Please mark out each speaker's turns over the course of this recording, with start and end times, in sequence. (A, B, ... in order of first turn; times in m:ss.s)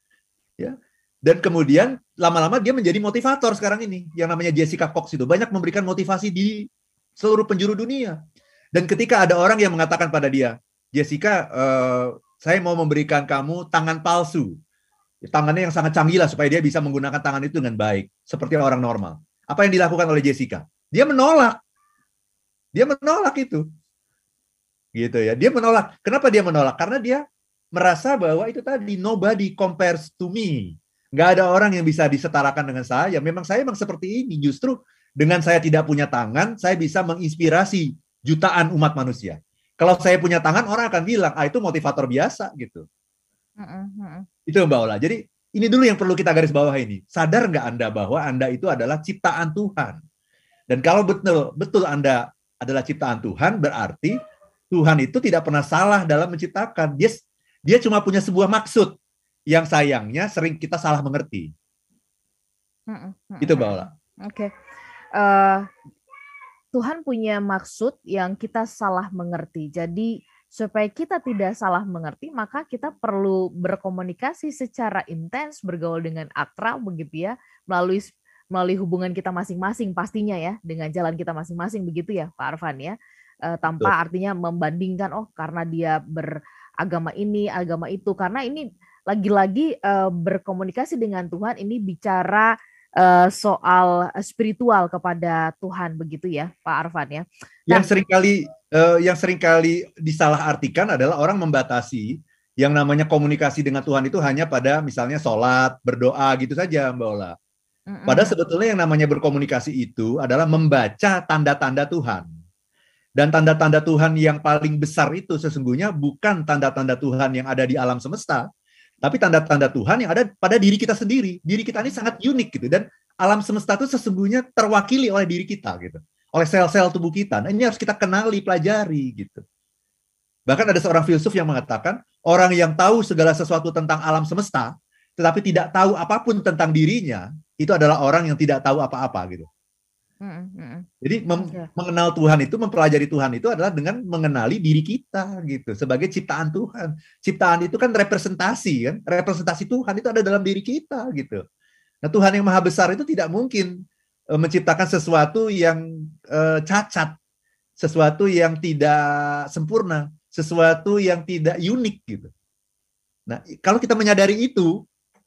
0:00.6-0:08.2 A
0:08.7-0:14.6 A
0:15.2-0:21.6 A
0:22.7-0:23.6 A
0:25.0-0:27.2 A
0:27.7-0:42.8 A
0:43.6-0:44.2 B
0:44.5-0:50.0 A
0:50.7-0:54.1 A
0:54.7-0:58.9 A
0:59.5-1:01.5 A
1:02.9-1:04.5 B
1:03.4-1:03.9 A
1:05.2-1:05.7 B
1:06.7-1:37.9 B
1:37.7-1:47.3 A
1:47.9-1:48.3 B
1:48.1-1:52.3 A
1:53.2-1:58.4 A
1:59.0-2:09.4 A
2:10.5-2:19.5 A
2:20.2-2:20.9 B
2:21.0-2:31.4 A
2:21.4-2:21.7 B
2:32.0-2:33.8 A
2:34.3-2:37.2 A
2:37.8-2:42.3 A
2:43.3-2:44.7 A